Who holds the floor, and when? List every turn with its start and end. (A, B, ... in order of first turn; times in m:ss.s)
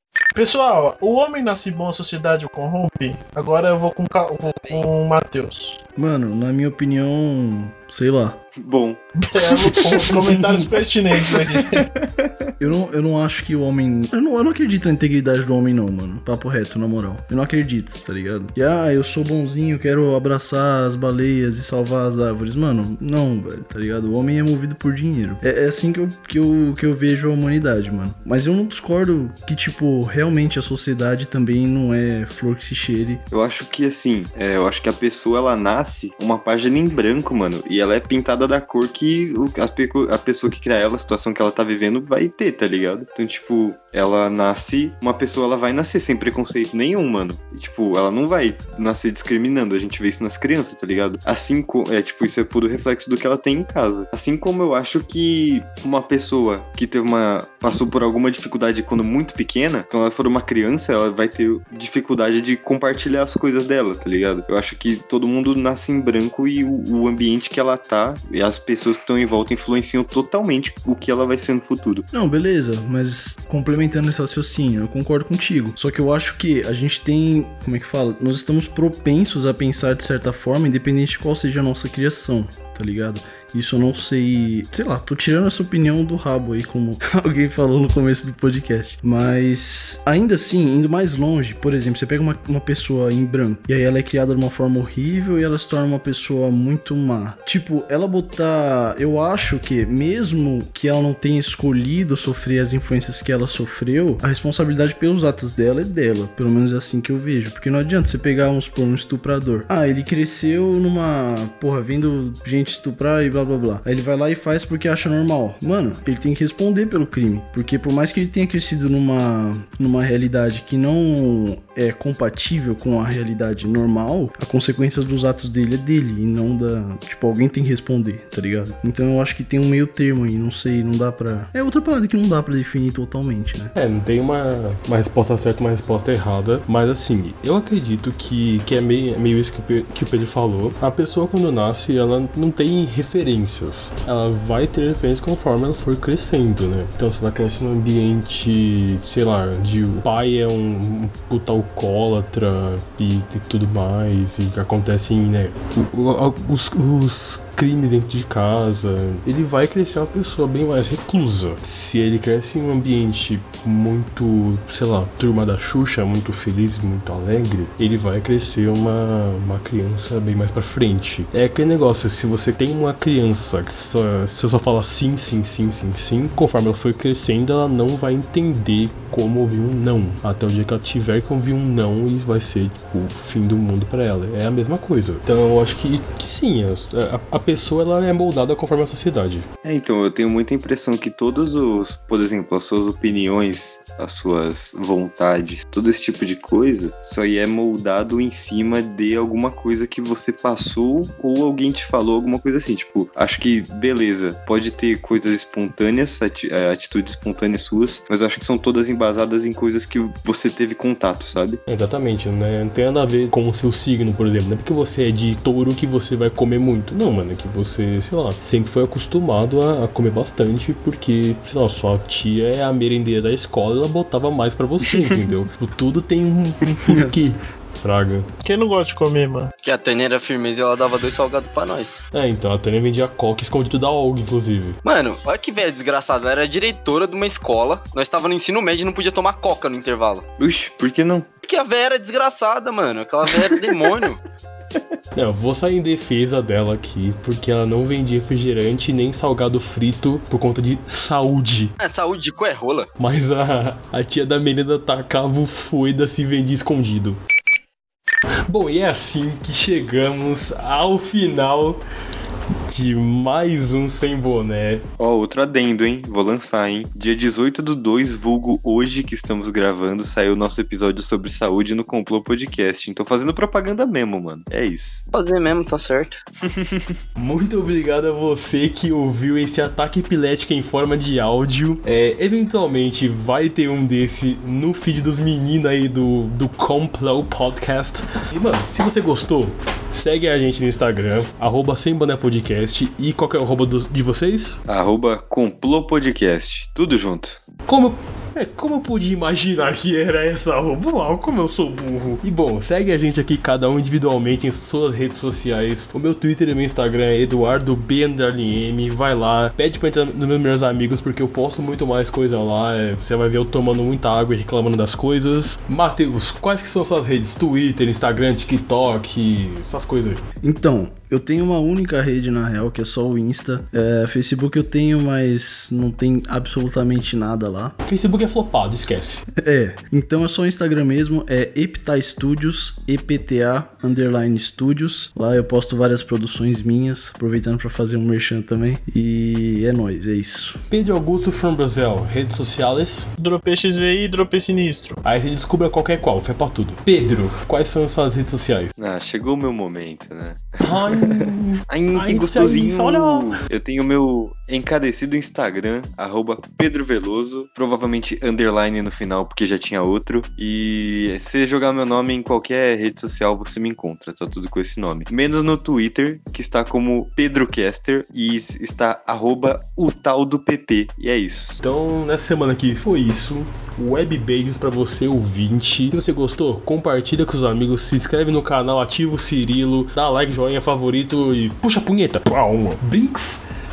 0:00.3-0:05.8 A
0:06.0-0:08.4 B
0:08.6-0:10.4 C
0:09.2-0:11.9 A
0:11.3-0:12.3 C
0:12.6-0:33.2 B
0:33.3-1:12.1 C
1:12.1-2:13.7 B
2:13.8-3:09.5 D
3:09.6-3:31.6 C
3:31.7-3:48.3 D
3:48.4-3:49.5 A
3:49.6-3:52.0 E
3:52.1-3:54.8 D
3:54.8-4:00.3 E
4:00.4-4:01.3 C
4:01.5-4:04.2 E
4:03.7-4:04.0 C
4:05.2-4:11.8 D
4:11.8-4:12.9 E
4:13.0-4:17.2 D
4:18.5-4:21.8 D
4:22.7-4:24.8 D
4:25.0-4:35.0 C
4:35.1-4:36.2 E
4:36.4-4:37.0 C
4:37.2-4:54.6 D
4:54.7-4:57.4 C
4:57.7-5:20.2 D
5:20.4-5:27.7 B
5:27.8-5:29.3 D
5:29.4-5:40.6 B
5:40.7-5:43.1 D
5:43.2-5:45.0 A
5:45.0-5:48.7 D
5:48.8-6:11.6 C
5:50.6-5:53.3 D
6:11.6-6:23.4 D